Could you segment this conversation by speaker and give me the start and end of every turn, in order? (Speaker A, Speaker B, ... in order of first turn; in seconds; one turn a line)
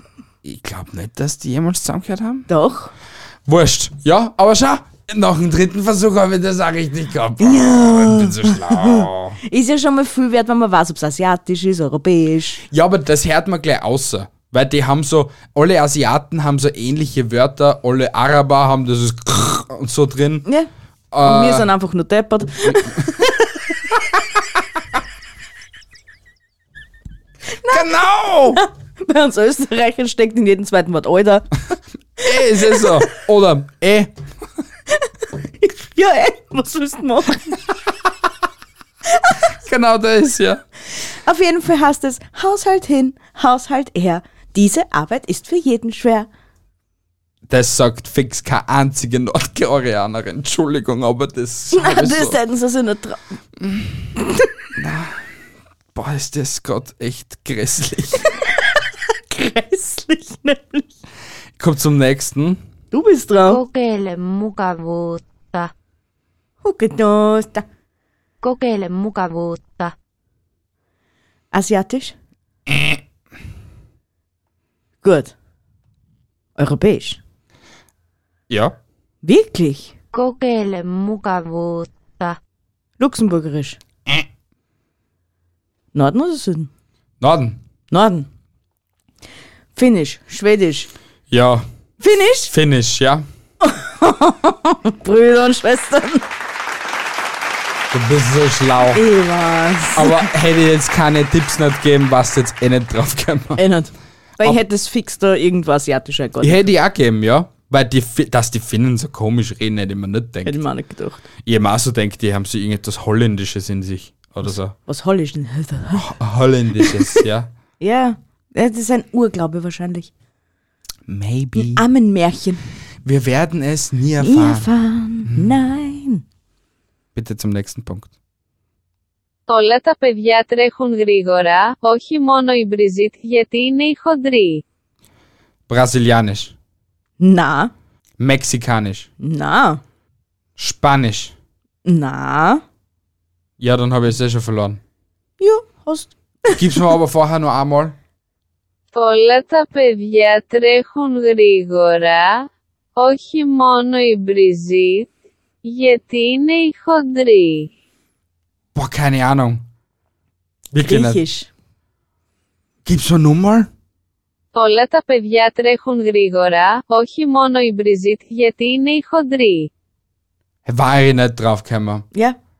Speaker A: 0.4-2.5
Speaker B: 2.5-2.9
Speaker A: 3.5-9.4
Speaker B: 7.4-12.6
Speaker A: 12.7-20.4
Speaker A: 21.1-21.7
Speaker B: 21.2-23.3
Speaker B: 27.6-27.9
Speaker A: 27.7-28.6
Speaker B: 28.5-31.5
Speaker A: 32.2-34.1
Speaker B: 32.3-33.0
Speaker B: 35.6-37.6
Speaker A: 39.6-40.6
Speaker B: 41.2-46.3
Speaker A: 47.5-52.4
Speaker B: 51.7-53.2
Speaker A: 53.6-54.1
Speaker A: 54.8-55.2
Speaker A: 55.9-58.2
Speaker B: 59.3-60.9
Speaker A: 61.6-62.6
Speaker B: 62.9-63.6
Speaker C: 63.5-65.7
Speaker B: 66.6-67.6
Speaker C: 68.4-69.9
Speaker B: 71.5-72.1
Speaker B: 75.0-75.3
Speaker B: 76.6-77.2
Speaker A: 78.5-78.8
Speaker B: 79.2-79.9
Speaker C: 80.1-82.3
Speaker B: 83.0-83.8
Speaker B: 85.9-86.7
Speaker A: 87.2-87.6
Speaker B: 87.9-88.3
Speaker B: 89.8-90.9
Speaker A: 91.3-91.7
Speaker B: 92.0-92.5
Speaker A: 92.5-93.2
Speaker B: 93.6-96.2
Speaker A: 97.9-99.0
Speaker B: 98.9-100.3
Speaker A: 99.9-103.6
Speaker B: 103.6-106.7
Speaker A: 106.4-110.6
Speaker B: 110.4-111.2
Speaker A: 111.4-114.7
Speaker B: 114.9-116.1
Speaker A: 115.9-117.5
Speaker B: 116.8-117.2
Speaker B: 117.8-120.1
Speaker A: 121.1-121.8
Speaker B: 121.5-122.6
Speaker A: 123.0-124.7
Speaker B: 124.2-126.2
Speaker A: 125.3-125.6
Speaker A: 127.1-128.1
Speaker D: 129.5-134.6
Speaker A: 135.7-136.5
Speaker B: 137.2-137.7
Speaker A: 138.2-139.1
Speaker B: 139.2-139.8
Speaker A: 140.6-141.3
Speaker B: 141.8-142.6
Speaker A: 143.6-144.8
Speaker B: 145.4-146.8
Speaker A: 146.6-147.9
Speaker D: 148.9-155.1
Speaker D: 155.6-157.7
Speaker A: 158.7-159.6
Speaker A: 160.7-161.2
Speaker B: 160.8-161.5
Speaker A: 162.8-163.7
Speaker D: 164.5-169.7
Speaker A: 170.7-172.1